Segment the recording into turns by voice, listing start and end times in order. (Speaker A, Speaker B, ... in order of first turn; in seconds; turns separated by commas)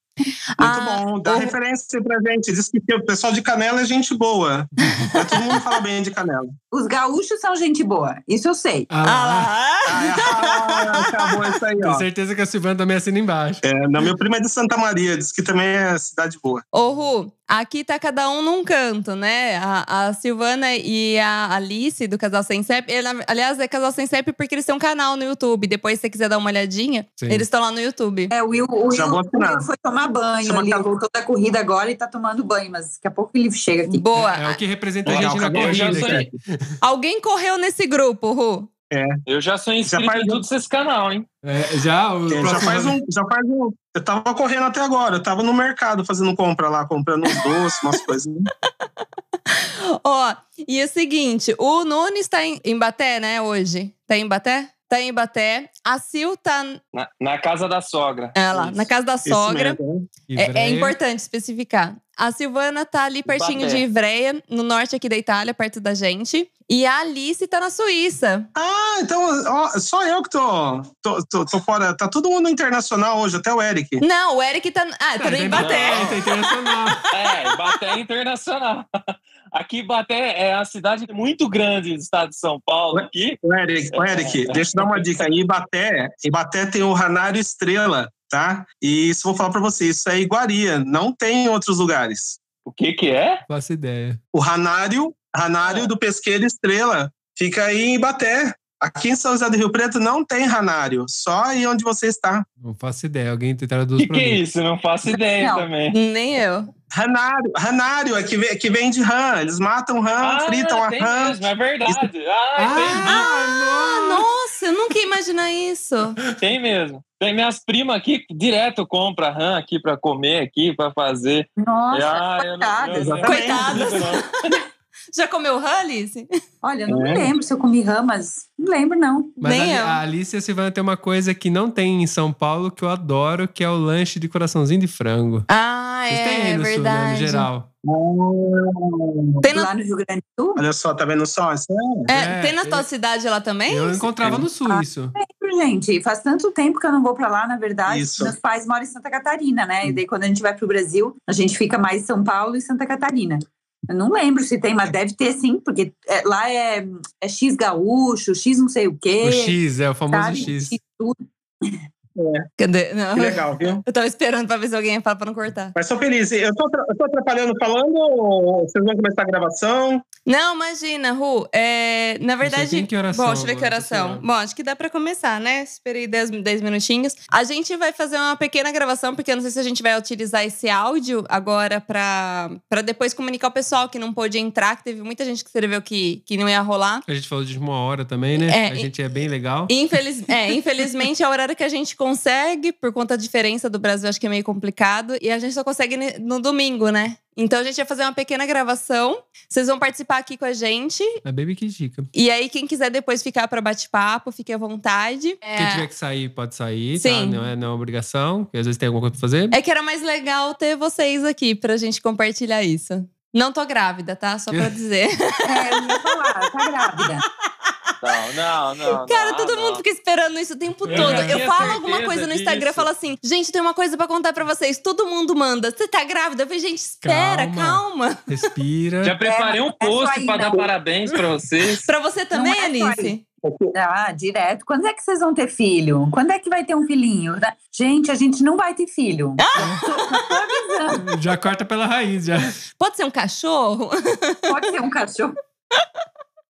Speaker A: 0.6-1.6, Speaker B: 0.6-6.5, Speaker A: 5.0-5.6, Speaker C: 6.7-8.9, Speaker D: 8.9-9.5, Speaker A: 9.1-11.4, Speaker B: 9.9-12.0, Speaker D: 11.8-13.6, Speaker B: 13.6-16.6, Speaker A: 16.7-28.3, Speaker D: 27.2-27.5, Speaker C: 28.3-34.0, Speaker B: 28.9-29.6, Speaker B: 30.4-30.9, Speaker A: 33.9-34.6, Speaker D: 34.1-36.7, Speaker E: 35.1-36.3, Speaker B: 35.1-36.3, Speaker A: 36.8-38.7, Speaker E: 39.3-41.3, Speaker B: 39.9-40.4, Speaker D: 41.4-43.0, Speaker B: 42.3-48.5, Speaker A: 47.3-47.6, Speaker A: 49.5-56.8, Speaker E: 56.9-58.9, Speaker A: 58.4-59.8, Speaker B: 59.3-60.0, Speaker D: 60.3-61.0, Speaker A: 60.4-68.5, Speaker E: 63.3-63.8, Speaker B: 68.6-74.0, Speaker A: 74.0-76.1, Speaker D: 75.2-77.0, Speaker E: 75.6-76.2, Speaker E: 77.1-78.9, Speaker E: 79.5-83.4, Speaker B: 83.0-92.4, Speaker E: 83.9-85.3, Speaker E: 92.7-93.4, Speaker D: 93.5-94.2, Speaker B: 94.3-102.5, Speaker E: 95.6-95.9, Speaker D: 102.6-104.4, Speaker E: 104.0-105.9, Speaker C: 105.1-105.7, Speaker A: 105.9-106.7, Speaker B: 107.0-112.0, Speaker E: 110.2-113.2, Speaker D: 112.6-114.3, Speaker A: 113.1-116.2, Speaker E: 116.4-124.2, Speaker C: 121.6-123.6, Speaker B: 123.0-123.7, Speaker A: 123.2-124.2, Speaker A: 125.1-126.3, Speaker C: 126.6-129.4, Speaker D: 129.4-135.5, Speaker A: 129.4-130.0, Speaker A: 135.5-137.5, Speaker D: 136.1-137.7, Speaker B: 137.9-138.6, Speaker A: 139.4-139.7, Speaker C: 139.5-140.7, Speaker B: 140.6-142.1, Speaker A: 142.1-144.1, Speaker D: 142.1-142.9, Speaker D: 143.7-145.1, Speaker C: 144.6-159.6, Speaker B: 147.9-148.3, Speaker D: 159.2-160.8, Speaker C: 160.1-161.7, Speaker B: 162.2-162.5, Speaker A: 162.6-165.7, Speaker B: 163.1-163.8, Speaker B: 165.8-170.0, Speaker A: 170.3-187.0, Speaker D: 172.4-174.2, Speaker D: 187.1-189.7, Speaker A: 188.4-188.9, Speaker A: 189.7-201.2, Speaker D: 201.2-202.1, Speaker A: 202.1-205.8, Speaker D: 205.5-209.6, Speaker A: 207.0-207.5, Speaker A: 209.5-216.0, Speaker C: 215.4-217.2, Speaker E: 218.0-219.8, Speaker A: 219.0-228.3, Speaker E: 220.9-222.9, Speaker D: 220.9-221.8, Speaker D: 227.0-229.1, Speaker E: 229.0-231.9, Speaker C: 229.2-230.7, Speaker A: 231.9-233.2, Speaker C: 232.3-233.2, Speaker C: 233.7-241.1, Speaker A: 239.4-240.2, Speaker D: 239.6-239.8, Speaker D: 241.1-242.6, Speaker A: 242.8-244.7, Speaker C: 244.5-245.4